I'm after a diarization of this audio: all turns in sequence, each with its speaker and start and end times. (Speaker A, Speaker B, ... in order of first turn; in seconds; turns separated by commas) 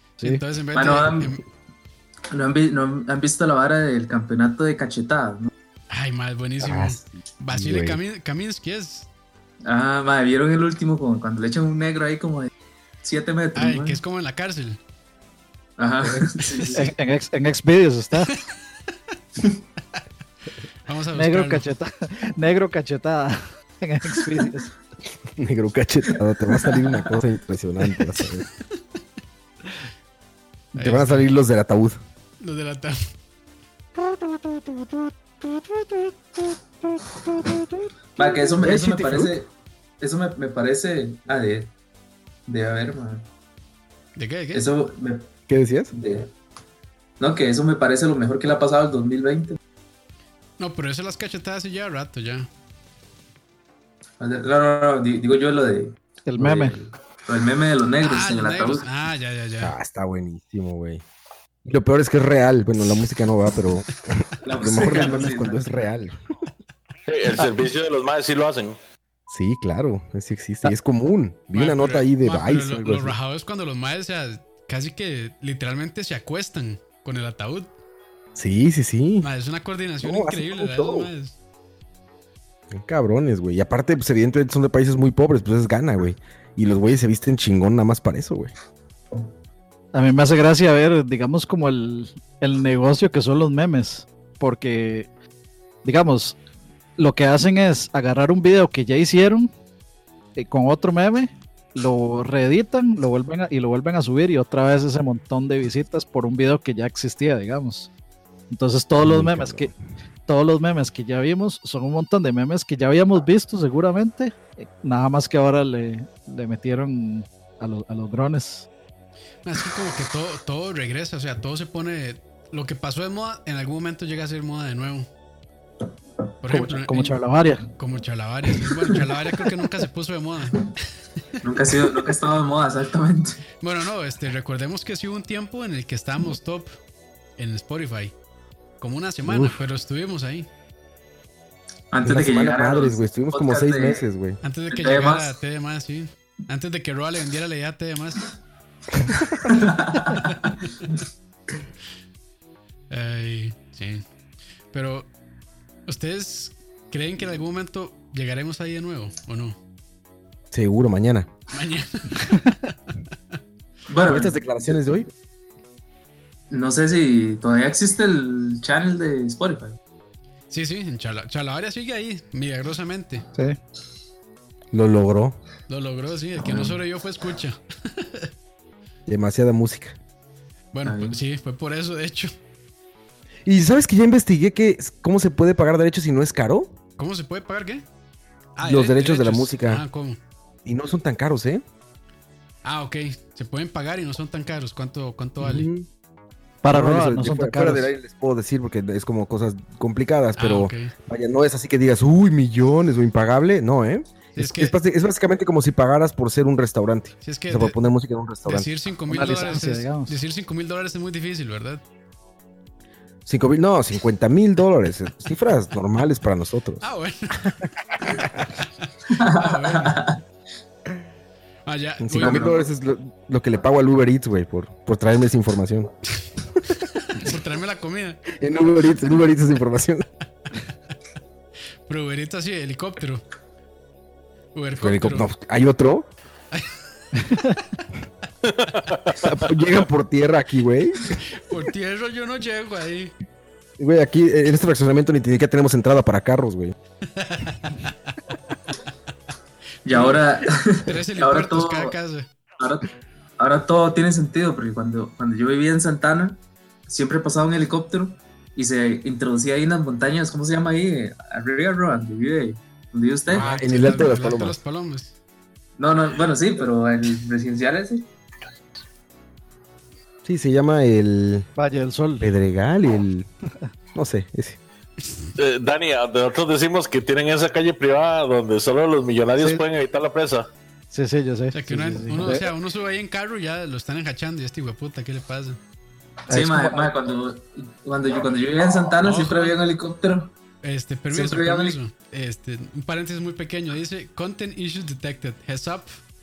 Speaker A: 0.2-1.4, Speaker B: 0.7-1.4, Speaker B: 2.3-5.5, Speaker A: 5.9-9.1, Speaker C: 6.6-8.0, Speaker B: 9.7-12.5, Speaker B: 13.0-14.0, Speaker A: 13.6-14.8, Speaker B: 15.8-16.9, Speaker A: 16.5-16.7, Speaker D: 16.8-18.3, Speaker A: 18.3-18.5, Speaker A: 20.9-21.6, Speaker D: 21.1-24.7, Speaker C: 25.4-28.5, Speaker C: 30.8-32.0, Speaker A: 30.8-31.3, Speaker A: 32.4-33.0, Speaker B: 38.2-39.5, Speaker C: 38.6-39.4, Speaker B: 40.0-41.7, Speaker B: 42.5-43.3, Speaker A: 44.1-44.7, Speaker B: 44.5-45.3, Speaker C: 45.5-45.9, Speaker B: 45.9-46.3, Speaker B: 47.2-49.6, Speaker A: 50.6-52.5, Speaker B: 54.2-58.9, Speaker D: 56.3-56.8, Speaker A: 58.0-59.8, Speaker C: 59.6-61.0, Speaker C: 61.6-66.2, Speaker B: 64.4-65.7, Speaker E: 67.1-68.8, Speaker C: 69.3-73.2, Speaker A: 71.5-77.7, Speaker C: 78.3-79.3, Speaker A: 79.2-81.3, Speaker C: 80.0-81.1, Speaker C: 82.7-88.5, Speaker D: 89.9-95.1, Speaker D: 95.8-96.4, Speaker D: 97.0-99.5, Speaker D: 100.4-107.9, Speaker D: 108.5-109.7, Speaker C: 109.0-109.7, Speaker D: 110.3-118.7, Speaker A: 119.4-125.1, Speaker A: 126.4-127.2, Speaker D: 126.5-127.7, Speaker A: 127.8-130.7, Speaker B: 131.4-133.4, Speaker A: 133.6-136.8, Speaker A: 137.4-138.1, Speaker A: 138.8-140.5, Speaker C: 139.2-139.6, Speaker B: 141.9-144.0, Speaker C: 142.0-144.4, Speaker A: 144.4-148.3, Speaker B: 144.7-145.4, Speaker C: 149.1-149.4, Speaker B: 149.5-150.4, Speaker A: 152.9-154.0, Speaker A: 154.7-155.1, Speaker A: 155.9-159.6, Speaker C: 160.5-161.3, Speaker A: 161.5-162.7, Speaker B: 163.9-164.7, Speaker C: 164.0-165.1, Speaker B: 166.5-169.8, Speaker A: 170.5-173.3, Speaker C: 174.7-175.4, Speaker A: 175.7-178.3, Speaker B: 176.4-176.8, Speaker C: 179.1-180.0, Speaker A: 180.7-182.3, Speaker B: 180.8-181.2, Speaker C: 183.5-186.7, Speaker A: 187.0-187.8, Speaker A: 188.6-190.2, Speaker C: 188.6-189.8, Speaker C: 190.7-191.6, Speaker A: 192.6-195.7, Speaker C: 195.4-195.9, Speaker D: 196.6-197.9, Speaker C: 196.7-208.7, Speaker A: 200.4-200.9, Speaker A: 204.4-204.8, Speaker A: 207.2-207.8, Speaker A: 208.4-211.8, Speaker D: 209.1-210.2, Speaker C: 213.3-216.8, Speaker A: 216.8-220.0, Speaker C: 218.1-218.4, Speaker B: 219.1-220.2, Speaker A: 221.7-222.6, Speaker C: 222.0-225.9, Speaker B: 222.2-222.6, Speaker A: 226.8-228.2, Speaker C: 228.3-230.1, Speaker A: 231.9-233.2, Speaker A: 234.5-235.3, Speaker C: 234.8-236.1, Speaker A: 236.5-237.6, Speaker E: 238.5-239.1, Speaker C: 239.1-241.2, Speaker A: 241.1-243.1, Speaker C: 243.8-246.7, Speaker A: 247.1-247.8, Speaker B: 249.9-252.0, Speaker A: 249.9-250.2, Speaker A: 250.8-252.3, Speaker B: 252.6-263.5, Speaker C: 263.3-264.6, Speaker A: 263.3-265.1, Speaker B: 265.8-268.1, Speaker C: 270.2-271.5, Speaker D: 271.6-272.3, Speaker C: 272.2-273.3, Speaker C: 273.9-274.6, Speaker E: 275.4-280.5, Speaker D: 280.9-282.5, Speaker A: 281.5-285.6, Speaker D: 286.3-286.9, Speaker B: 286.3-290.3, Speaker A: 289.0-289.6, Speaker A: 290.6-296.0, Speaker B: 291.1-291.8